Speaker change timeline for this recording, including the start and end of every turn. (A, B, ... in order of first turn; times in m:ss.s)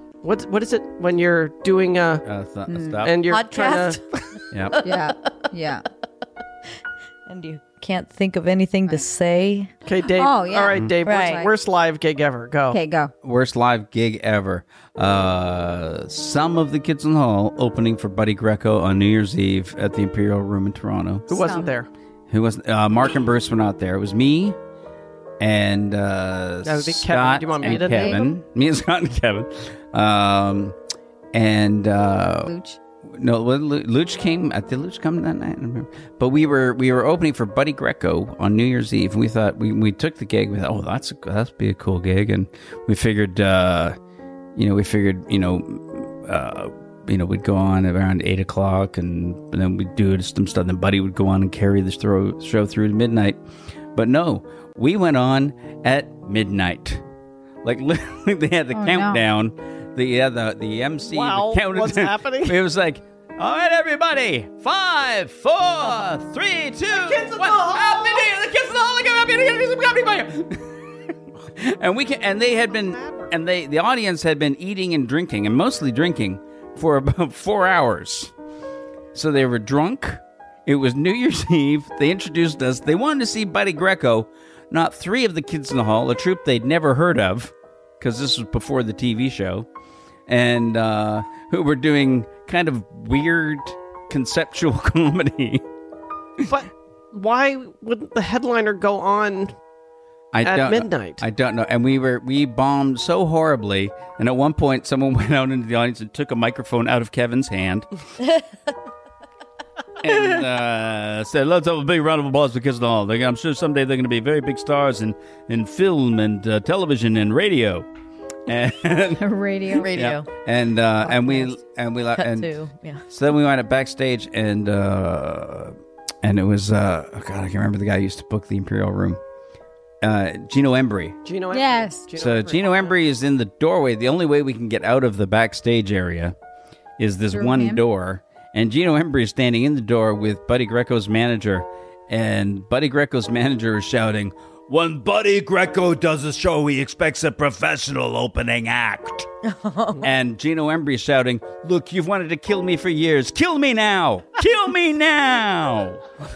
0:00.2-0:02.2 A
0:02.2-0:03.1 B
0:02.7-0:03.0 C
0:03.0-0:04.2 A
0:03.3-0:05.4 D
0:04.5-0:04.8 B
0:04.8-0:05.8 C
0:07.3-0:09.7 D
0:09.8-0:12.8 A
0:10.2-0:11.5 C
0:11.0-0:11.5 D
0:12.7-0:13.1 C
0:13.2-0:21.3 B
0:21.3-0:21.9 A
0:21.3-0:21.7 C
0:22.3-0:24.6 B
0:25.4-0:30.7 B
0:26.6-0:28.2 A
0:27.6-0:28.4 C
0:31.3-0:32.5 B
0:32.4-0:32.8 C
0:33.1-0:44.0 B
0:44.6-0:53.4 B
0:53.9-0:57.0 B
0:57.6-1:18.3 B
0:58.7-0:59.2 C
1:01.1-1:02.6 A
1:06.9-1:08.3 A
1:12.7-1:13.3 A
1:19.1-1:29.7 B
1:30.3-1:35.6 B
1:36.5-1:39.5 A
1:40.3-1:47.9 B
1:40.4-1:41.2 A
1:50.0-1:57.8 B
1:58.4-1:59.2 B
1:59.2-1:59.9 C
1:59.7-2:00.3 D
1:59.9-2:02.5 B
2:01.1-2:01.5 C
2:02.1-2:03.0 D
2:03.1-2:09.2 B
2:10.0-2:11.2 B
2:11.2-2:13.0 A
2:11.5-2:12.1 C
2:12.1-2:16.3 B
2:17.0-2:29.3 B
2:17.3-2:17.8 C
2:29.5-2:30.0 D
2:30.0-2:36.0 B